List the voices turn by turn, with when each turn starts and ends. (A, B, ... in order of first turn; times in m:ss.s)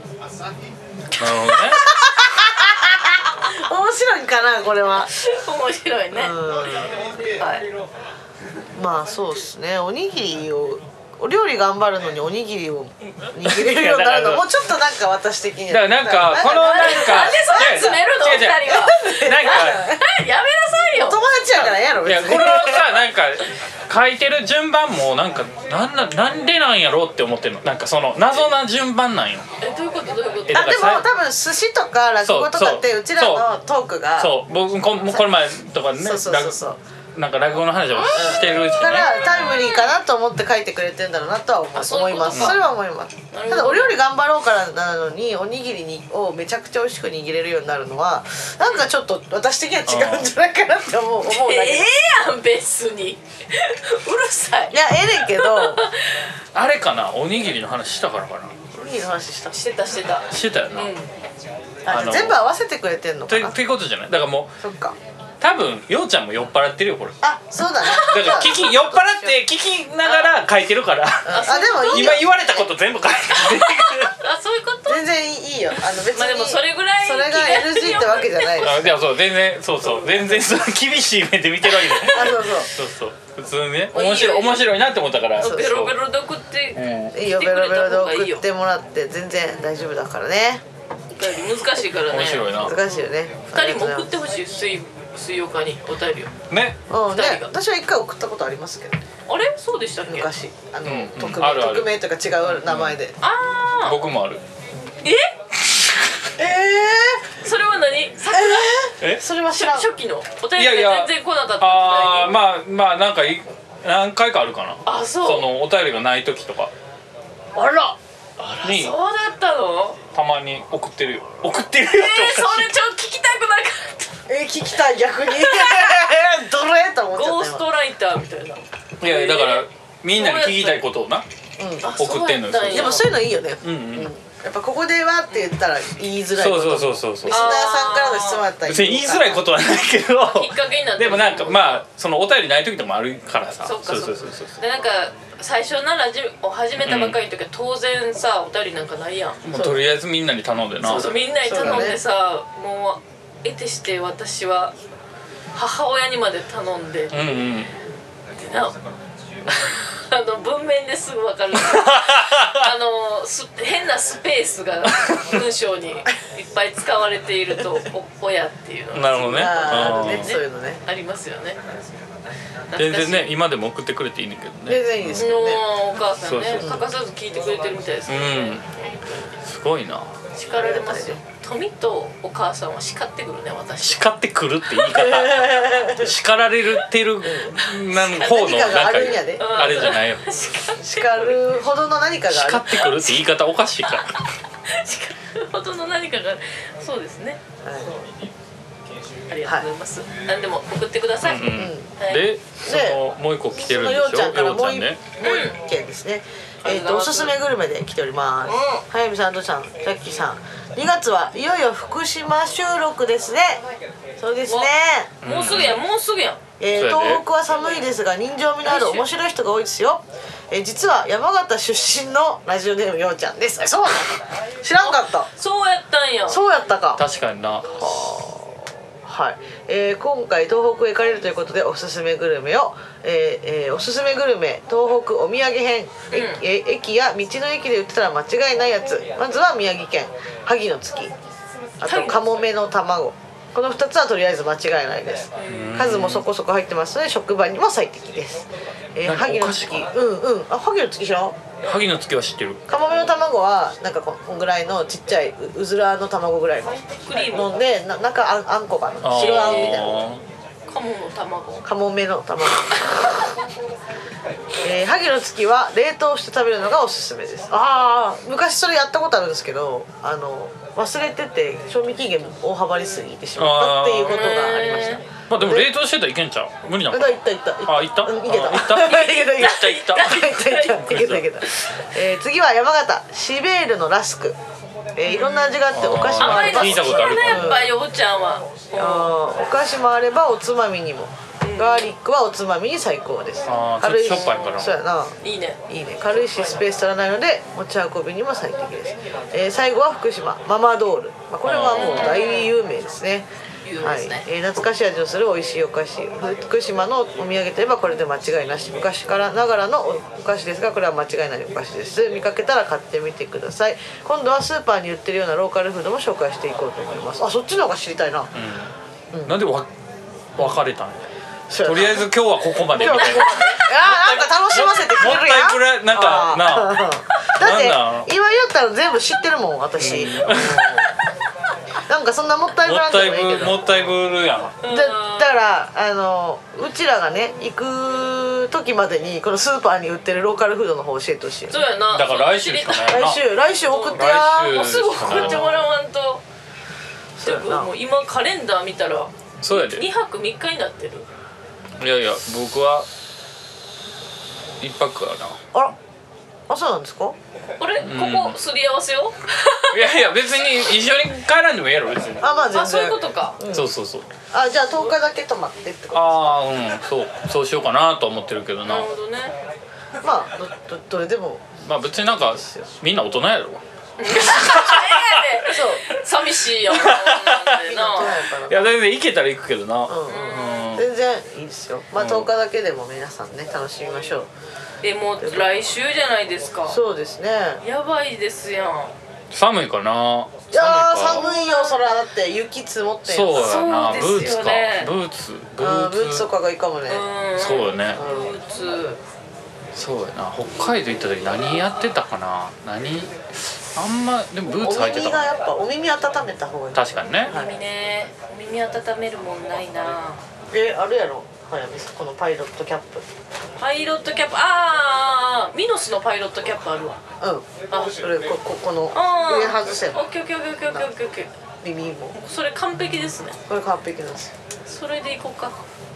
0:01.2-0:01.9 A
0:01.2-0:01.6 B
0:01.8-0:05.1 C
0:05.1-0:06.4 B
0:06.1-0:07.0 C
0:07.2-0:07.7 B
0:08.8-0:18.0 C
0:13.4-0:14.6 A
0:15.7-0:19.9 A
0:16.5-0:21.2 B
0:18.7-0:20.0 C
0:21.0-0:23.0 C
0:21.7-0:29.5 A
0:29.6-0:30.7 B
0:30.5-0:31.1 A
0:30.5-0:34.4 C
0:32.2-0:33.5 A
0:34.2-0:36.6 A
0:36.0-0:36.8 C
0:37.2-0:39.3 A
0:38.1-0:51.9 C
0:39.4-0:39.9 B
0:41.8-0:42.6 B
0:42.3-0:42.6 A
0:43.3-0:44.0 B
0:49.9-0:50.3 A
0:51.2-0:56.3 B
0:54.7-0:55.8 C
0:56.5-0:58.6 A
0:58.7-0:59.6 C
0:59.5-1:01.1 B
1:00.3-1:00.9 A
1:01.8-1:03.6 C
1:01.9-1:02.4 A
1:03.3-1:04.6 A
1:04.6-1:05.0 C
1:05.4-1:07.2 A
1:07.2-1:09.4 C
1:07.9-1:08.4 B
1:07.9-1:14.2 A
1:10.0-1:10.3 B
1:11.2-1:12.7 C
1:11.3-1:12.2 B
1:14.0-1:15.0 B
1:14.9-1:18.9 C
1:16.0-1:18.7 B
1:18.6-1:26.0 A
1:22.1-1:22.7 C
1:23.9-1:24.6 B
1:25.4-1:28.4 B
1:25.4-1:25.7 C
1:26.8-1:27.2 A
1:27.1-1:30.6 C
1:31.2-1:36.3 B
1:32.1-1:32.8 A
1:32.6-1:34.1 C
1:36.5-1:36.8 A
1:36.9-1:39.0 C
1:37.1-1:37.5 B
1:39.3-1:40.3 B
1:40.0-1:43.2 C
1:40.8-1:41.9 A
1:42.5-1:43.0 A
1:43.2-1:44.0 B
1:43.8-1:44.4 A
1:45.0-1:45.3 B
1:46.4-1:47.3 C
1:47.4-1:48.9 B
1:48.3-1:49.9 C
1:49.5-1:52.4 B
1:50.6-1:56.7 A
1:54.8-1:55.5 B
1:57.6-1:58.0 C
1:58.5-1:59.0 A
1:58.6-2:00.0 B
2:00.1-2:02.7 A
2:01.8-2:04.1 B
2:04.3-2:07.6 C
2:05.3-2:06.0 B
2:07.1-2:10.8 B
2:09.0-2:11.3 A
2:11.6-2:11.9 C
2:11.8-2:13.1 B
2:12.0-2:14.1 A
2:12.6-2:19.5 C
2:16.3-2:17.5 A
2:17.3-2:18.5 B
2:18.6-2:24.6 A
2:20.2-2:21.8 B
2:23.6-2:29.4 B
2:26.8-2:27.2 A
2:29.4-2:31.8 A
2:29.5-2:29.8 C
2:30.8-2:34.7 B
2:31.4-2:32.0 C
2:35.5-2:37.2 B
2:37.1-2:37.7 A
2:38.3-2:38.8 B
2:39.5-2:51.6 B
2:41.6-2:42.7 A
2:48.9-2:50.3 A
2:49.3-2:50.8 C
2:52.7-2:53.3 B
2:52.8-2:55.3 A
2:54.7-2:55.6 C
2:55.2-2:58.5 B
2:56.2-2:56.7 A
2:56.6-2:56.9 C
2:58.1-2:58.6 A
2:59.5-3:00.1 A
3:00.3-3:04.1 B
3:00.6-3:01.2 C
3:03.8-3:10.4 A
3:04.9-3:06.2 C
3:07.2-3:09.8 C
3:07.7-3:08.2 B
3:09.4-3:11.4 B
3:10.8-3:13.1 C
3:12.3-3:14.2 A
3:13.9-3:17.4 B
3:17.6-3:18.0 C
3:19.3-3:22.3 B
3:21.2-3:25.0 A
3:21.5-3:22.0 C
3:22.6-3:23.0 C
3:23.6-3:33.6 C
3:25.2-3:25.6 B
3:26.6-3:27.4 B
3:28.5-3:28.8 B
3:34.2-3:35.1 C
3:34.5-3:36.4 B
3:35.2-3:35.8 A
3:36.6-3:45.3 C
3:36.7-3:37.2 A
3:38.6-3:39.1 B
3:44.8-3:46.4 B
3:46.3-3:47.0 C
3:47.0-3:47.8 A
3:47.6-4:01.1 C
3:56.1-3:56.4 B
4:01.8-4:11.4 C
4:01.8-4:02.3 B
4:05.5-4:06.3 A
4:09.0-4:09.8 A
4:11.6-4:12.6 A
4:12.7-4:20.1 C
4:16.8-4:17.5 B
4:19.0-4:20.2 A
4:19.1-4:19.9 B
4:20.7-4:21.7 B
4:21.6-4:23.4 C
4:24.6-4:35.7 C
4:33.4-4:34.5 A
4:34.1-4:35.0 B
4:35.3-4:41.3 A
4:36.9-4:44.4 C
4:38.8-4:41.0 B
4:45.0-4:47.7 C
4:45.1-4:45.7 B
4:45.7-4:47.6 A
4:46.2-4:49.1 B
4:48.8-4:55.2 C
4:51.4-4:51.9 B
4:53.5-4:54.8 A
4:55.2-4:56.6 B
4:55.7-5:03.3 C
5:01.4-5:02.1 A
5:01.7-5:02.5 B
5:03.6-5:04.3 B
5:03.8-5:18.3 C
5:18.4-5:18.7 A
5:19.2-5:19.7 A
5:20.4-5:21.0 A
5:21.5-5:22.1 C
5:21.6-5:28.1 A
5:22.7-5:30.9 C
5:22.8-5:23.6 B
5:29.8-5:30.9 A
5:31.8-5:33.9 C
5:32.6-5:34.6 A
5:34.6-5:35.4 B
5:34.6-5:41.6 C
5:41.5-5:43.0 B
5:41.9-5:43.2 A
5:42.9-5:44.5 C
5:43.7-5:46.2 B
5:43.9-5:45.7 A
5:47.2-5:47.7 C
5:47.2-5:51.1 B
5:49.4-5:49.9 A
5:51.8-5:52.9 A
5:54.6-5:55.4 A
5:56.5-5:57.2 C
5:57.6-6:00.0 B
5:57.8-5:58.4 A
5:59.7-6:02.3 A
6:02.2-6:03.7 C
6:02.5-6:03.4 B
6:03.5-6:04.1 A
6:04.3-6:06.4 C
6:05.9-6:08.9 A
6:08.6-6:09.4 B
6:10.0-6:12.7 C
6:11.6-6:15.3 A
6:14.0-6:18.2 B
6:15.4-6:15.9 C
6:16.7-6:20.9 A
6:17.6-6:18.7 C
6:19.9-6:24.3 C
6:20.1-6:20.7 B
6:22.0-6:22.3 A
6:24.8-6:26.8 B
6:25.2-6:25.6 C
6:26.7-6:27.6 C
6:27.6-6:28.9 B
6:29.3-6:31.3 A
6:30.5-6:33.5 C
6:31.1-6:31.8 B
6:33.1-6:36.3 A
6:33.3-6:34.9 B
6:35.6-6:37.1 C
6:36.9-6:39.0 B
6:37.4-6:38.0 A
6:37.9-6:38.3 C
6:39.8-6:45.3 A
6:44.6-6:47.5 C
6:46.8-6:47.3 A
6:47.2-6:50.2 B
6:50.5-6:53.0 C
6:53.6-6:57.0 B
6:57.2-7:00.0 C
6:57.7-6:58.0 B
6:58.9-7:01.3 B
7:00.6-7:00.9 C
7:01.6-7:02.2 C
7:02.2-7:03.4 B
7:03.5-7:04.3 C
7:04.6-7:05.6 B